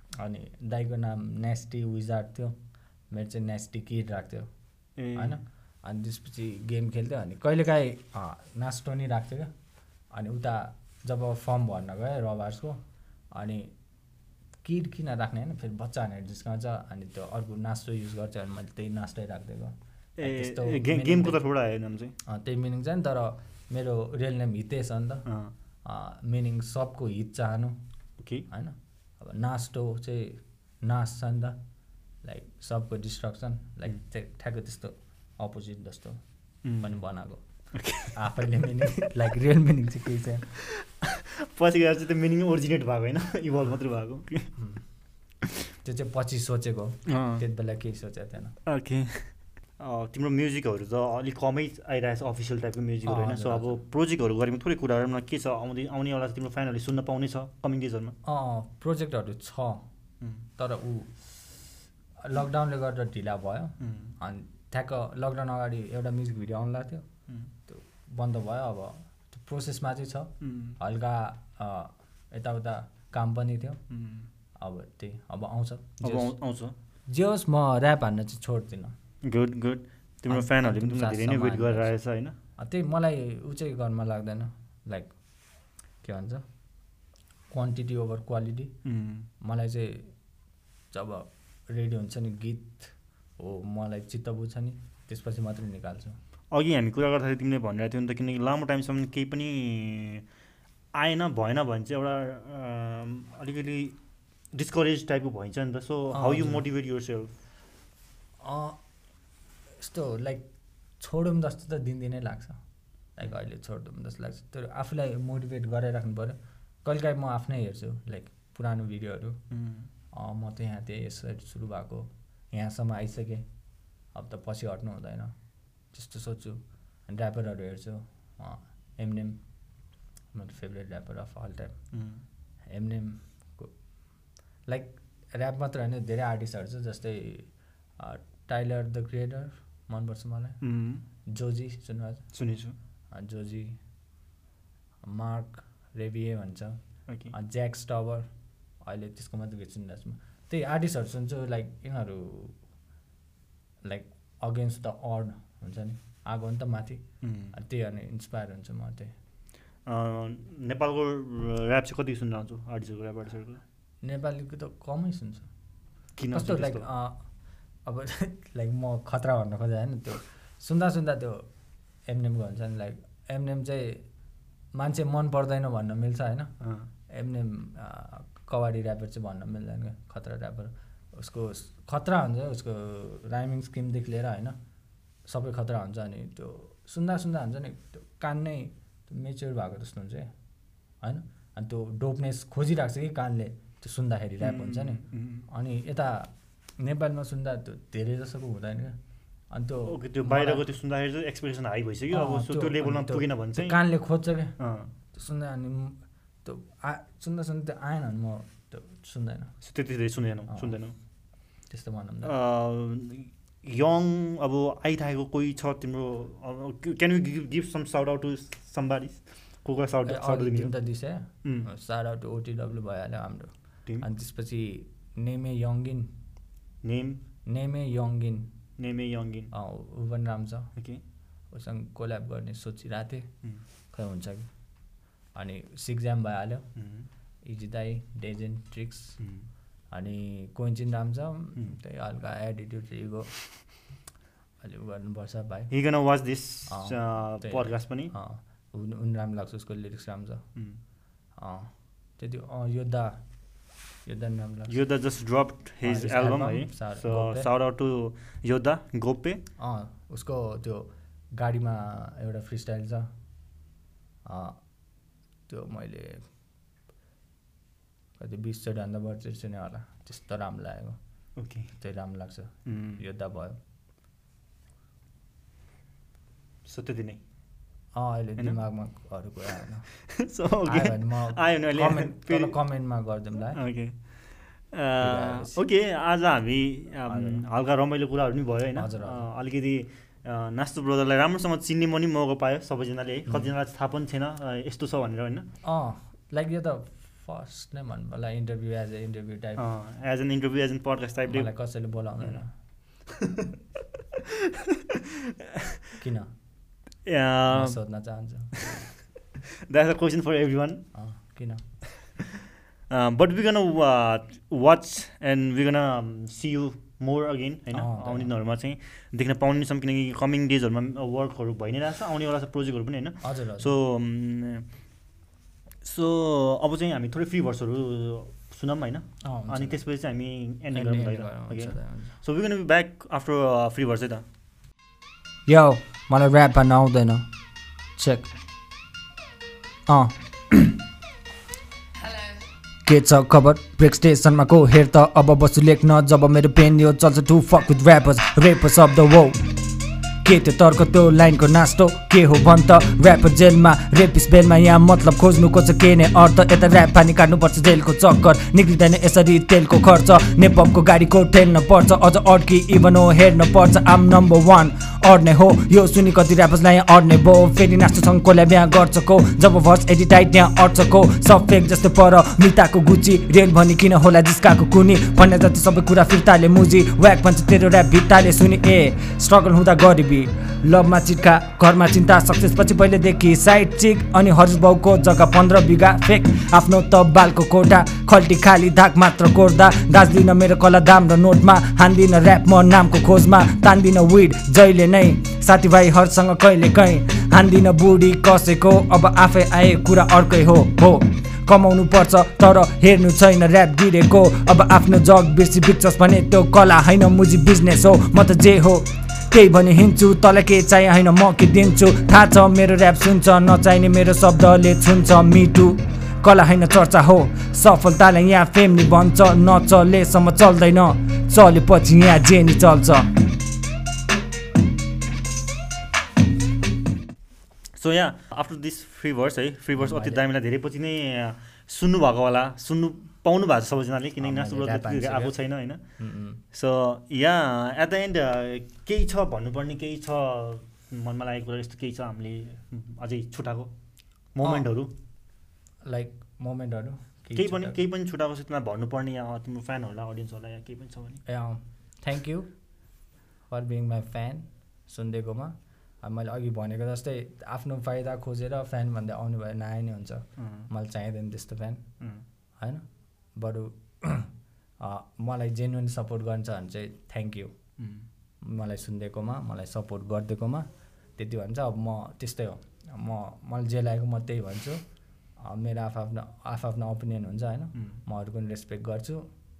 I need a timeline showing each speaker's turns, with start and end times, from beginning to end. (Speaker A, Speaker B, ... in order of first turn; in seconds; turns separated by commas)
Speaker A: 0.2-2.5, Speaker A: 3.1-4.5, Speaker B: 5.0-5.4, Speaker A: 5.1-9.5, Speaker A: 10.1-12.8, Speaker A: 13.3-13.7, Speaker A: 14.6-21.4, Speaker B: 20.2-22.1, Speaker A: 22.2-25.2, Speaker B: 25.2-25.5, Speaker A: 25.8-27.8, Speaker B: 28.2-28.5, Speaker A: 28.5-31.6, Speaker A: 32.2-36.2, Speaker B: 36.6-36.9, Speaker A: 36.8-37.4, Speaker B: 37.7-38.2, Speaker A: 38.1-40.5, Speaker B: 40.5-44.5, Speaker A: 45.8-48.5, Speaker B: 47.0-47.4, Speaker B: 48.6-58.1, Speaker A: 53.0-53.8, Speaker A: 58.2-59.8, Speaker A: 60.6-61.2, Speaker A: 62.2-67.0, Speaker B: 63.8-64.1, Speaker A: 67.7-73.8, Speaker B: 70.4-70.8, Speaker B: 73.9-74.3, Speaker A: 74.6-76.3, Speaker B: 76.0-76.7, Speaker A: 77.1-78.9, Speaker B: 79.2-82.3, Speaker A: 80.3-81.9, Speaker A: 82.6-85.1, Speaker A: 86.0-86.4, Speaker A: 87.5-88.7, Speaker B: 88.8-89.3, Speaker A: 89.4-90.1, Speaker A: 90.9-96.2, Speaker B: 96.5-100.2, Speaker B: 100.9-104.0, Speaker B: 104.5-107.3, Speaker A: 106.1-106.6, Speaker A: 108.4-108.8, Speaker A: 109.8-110.4, Speaker A: 111.0-112.6, Speaker A: 113.2-119.4, Speaker B: 119.5-119.9, Speaker A: 120.1-123.4, Speaker A: 124.1-125.3, Speaker A: 125.9-129.4, Speaker A: 130.3-131.8, Speaker B: 131.9-132.2, Speaker A: 132.7-133.7, Speaker A: 134.7-140.6, Speaker B: 140.6-141.0, Speaker A: 141.3-142.2, Speaker B: 142.3-142.8, Speaker A: 143.1-143.8, Speaker A: 145.0-146.8, Speaker A: 147.3-148.3, Speaker A: 148.8-152.6, Speaker A: 153.8-159.1, Speaker B: 157.2-157.5, Speaker B: 159.8-163.6, Speaker A: 164.0-165.5, Speaker B: 166.2-166.8, Speaker A: 166.3-167.2, Speaker A: 167.8-171.4, Speaker A: 172.1-174.0, Speaker A: 174.7-176.5, Speaker B: 176.6-176.9, Speaker A: 177.1-184.6, Speaker A: 185.2-190.3, Speaker A: 191.0-198.9, Speaker B: 194.4-195.5, Speaker A: 199.5-200.7, Speaker B: 199.8-203.8, Speaker A: 202.1-204.6, Speaker B: 204.6-204.9, Speaker A: 205.1-209.5, Speaker B: 209.6-210.9, Speaker A: 210.5-210.8, Speaker A: 211.7-212.3, Speaker B: 212.2-220.7, Speaker A: 220.0-226.1, Speaker B: 221.4-221.7, Speaker B: 226.8-227.2, Speaker A: 227.4-228.5, Speaker B: 228.8-229.5, Speaker A: 229.5-230.7, Speaker B: 230.8-231.0, Speaker A: 231.5-233.3, Speaker A: 233.9-234.5, Speaker A: 235.3-236.7, Speaker B: 236.8-237.1, Speaker A: 237.4-239.2, Speaker B: 239.2-239.4, Speaker A: 239.9-243.3, Speaker A: 244.6-245.7, Speaker B: 245.7-248.1, Speaker A: 246.7-250.4, Speaker A: 251.4-253.2, Speaker A: 254.1-254.8, Speaker B: 254.7-259.4, Speaker A: 255.8-257.5, Speaker A: 259.6-263.1, Speaker A: 264.2-264.6, Speaker A: 265.5-266.2, Speaker A: 268.2-271.0, Speaker B: 271.4-271.7, Speaker A: 271.8-273.6, Speaker B: 272.6-273.0, Speaker B: 276.6-277.2, Speaker A: 277.9-279.9, Speaker B: 279.5-282.6, Speaker A: 280.6-283.6, Speaker B: 283.5-283.9, Speaker B: 284.7-295.5, Speaker A: 285.0-285.6, Speaker A: 287.1-287.4, Speaker A: 288.8-289.2, Speaker A: 295.6-299.6, Speaker B: 299.6-301.5, Speaker A: 301.3-302.5, Speaker B: 303.1-303.5, Speaker B: 304.1-305.9, Speaker A: 306.0-306.3, Speaker B: 307.0-307.8, Speaker A: 307.5-308.9, Speaker B: 308.6-308.8, Speaker B: 309.4-310.8, Speaker A: 310.9-311.6, Speaker B: 312.2-324.6, Speaker A: 317.7-318.3, Speaker A: 323.2-323.7, Speaker B: 325.8-334.2, Speaker A: 329.2-329.8, Speaker A: 330.7-332.1, Speaker A: 335.5-337.2, Speaker A: 338.0-338.3, Speaker A: 339.9-340.8, Speaker A: 342.8-349.5, Speaker A: 350.2-423.1, Speaker B: 427.7-435.8, Speaker A: 429.7-430.2, Speaker A: 434.2-435.4, Speaker A: 436.0-436.4, Speaker B: 436.5-443.7, Speaker B: 444.3-444.9, Speaker A: 445.8-447.8, Speaker B: 447.3-451.2, Speaker A: 451.2-452.5, Speaker A: 453.5-461.8, Speaker B: 460.4-460.7, Speaker A: 462.6-462.8, Speaker A: 463.4-467.5, Speaker B: 467.8-468.1, Speaker A: 468.4-470.6, Speaker A: 471.2-474.8, Speaker A: 475.4-479.2